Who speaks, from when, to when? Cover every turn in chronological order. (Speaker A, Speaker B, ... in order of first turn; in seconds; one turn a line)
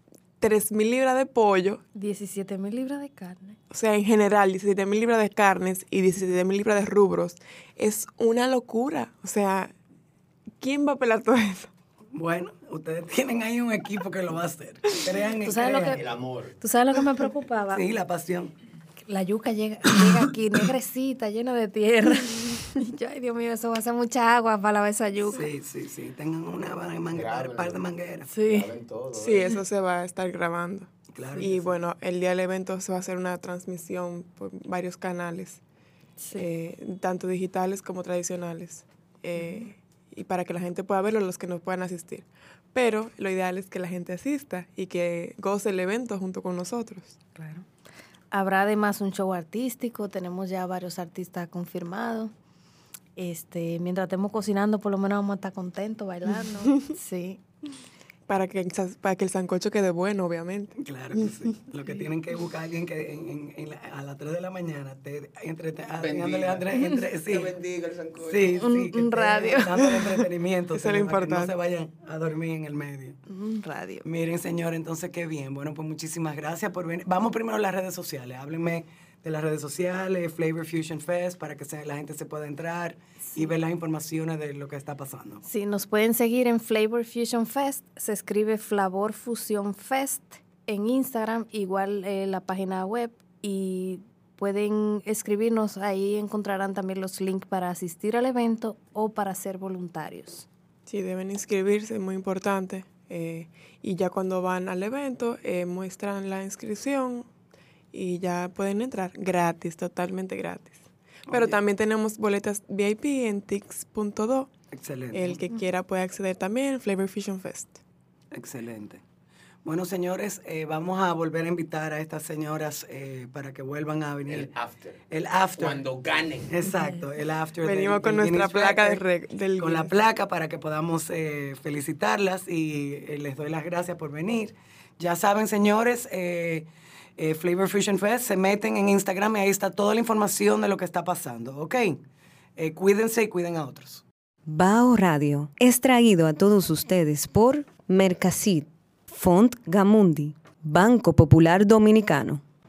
Speaker A: 0.4-1.8
Speaker B: 1.9-3.6
Speaker A: 3.7-9.7
Speaker A: 10.6-11.7
Speaker C: 12.1-16.0
Speaker B: 15.4-16.1
Speaker D: 16.0-16.5
Speaker B: 16.6-17.8
Speaker C: 17.7-18.5
Speaker B: 19.1-25.4
Speaker C: 25.3-28.4
Speaker D: 27.1-27.8
Speaker B: 28.3-28.7
Speaker D: 28.4-29.5
Speaker A: 29.1-35.6
Speaker C: 31.1-31.8
Speaker B: 36.2-36.5
Speaker A: 36.4-47.2
Speaker B: 39.4-39.7
Speaker B: 47.4-47.6
Speaker B: 48.3-52.3
Speaker B: 53.1-57.4
Speaker A: 58.3-60.7
Speaker C: 60.8-67.5
Speaker D: 65.9-68.7
Speaker B: 66.7-67.0
Speaker C: 68.2-73.2
Speaker B: 68.6-69.8
Speaker A: 70.7-71.5
Speaker B: 73.3-74.0
Speaker C: 74.0-85.4
Speaker B: 85.4-100.5
Speaker A: 100.9-107.3
Speaker A: 107.9-114.5
Speaker C: 111.3-111.6
Speaker C: 114.7-115.4
Speaker A: 115.1-117.8
Speaker C: 118.3-119.0
Speaker C: 119.6-124.5
Speaker D: 124.3-125.0
Speaker C: 125.1-125.9
Speaker D: 125.5-126.5
Speaker C: 126.5-129.0
Speaker B: 126.7-127.0
Speaker A: 127.6-129.9
Speaker C: 129.6-142.0
Speaker C: 142.6-144.0
Speaker E: 144.4-152.4